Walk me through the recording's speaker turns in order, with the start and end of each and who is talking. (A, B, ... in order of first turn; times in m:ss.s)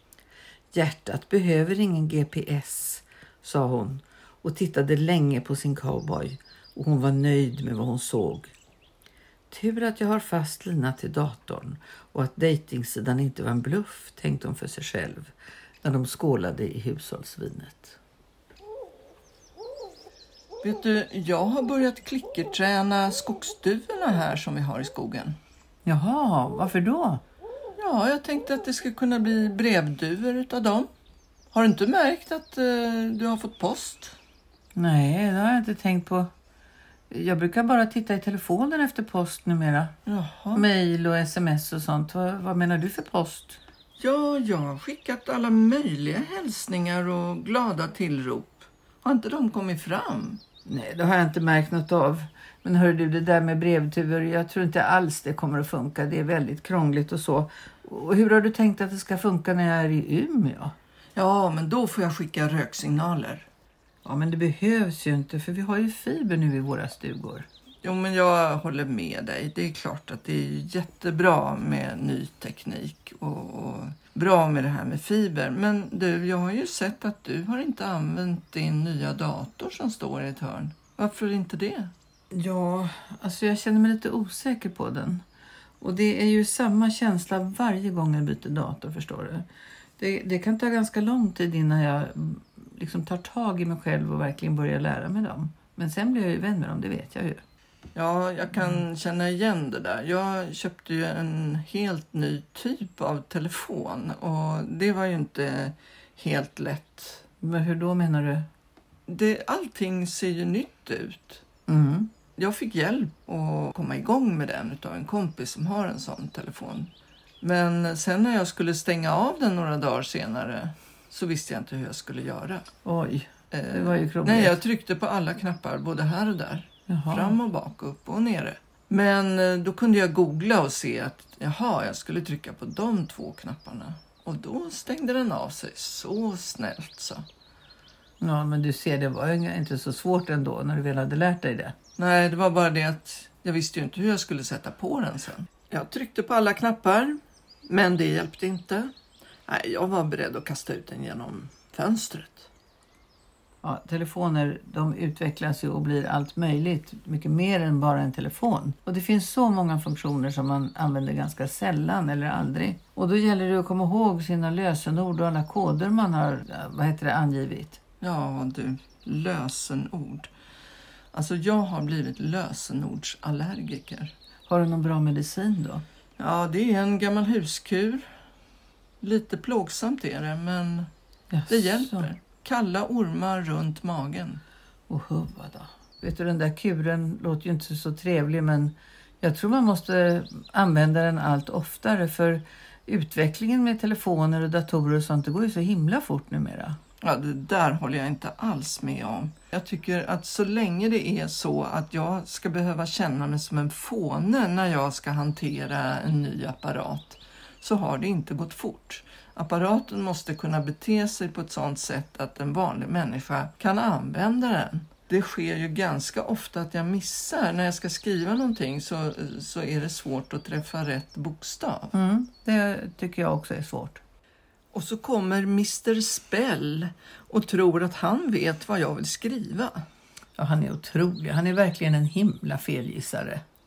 0:00.7-0:08.5 A
0:09.5-0:18.0 A
0:20.6-0:25.4 B
0:25.8-0:27.2 A
0:27.8-0:30.9 B
0:31.5-0:34.2 B
0:34.8-0:36.3 A
0:37.1-0:40.0 A
0:40.0-0:40.6 B
0:40.5-0:43.6 A
0:44.0-0:50.4 B
0:50.6-1:00.7 A
1:01.1-1:03.5 B
1:04.0-1:07.5 A
1:07.8-1:21.9 B
1:22.3-1:25.2 A
1:25.8-1:29.5 A
1:30.0-1:37.4 A
1:37.9-1:47.2 B
1:47.4-1:48.5 A
1:49.1-1:51.4 B
1:51.7-1:52.1 A
1:52.4-1:56.9 B
1:57.4-2:02.7 B
2:02.8-2:04.6 A
2:03.5-2:17.2 B
2:06.9-2:07.4 A
2:18.2-2:21.7 A
2:22.0-2:28.9 B
2:29.5-2:32.5 B
2:33.6-2:47.8 A
2:48.0-2:50.3 B
2:51.1-2:54.1 B
2:54.5-2:55.8 A
2:56.2-2:58.1 B
2:59.0-3:00.9 B
3:01.3-3:02.1 A
3:01.5-3:04.4 B
3:04.9-3:16.8 A
3:17.0-3:41.9 B
3:41.9-3:44.0 A
3:44.7-3:49.9 B
3:50.4-3:53.4 A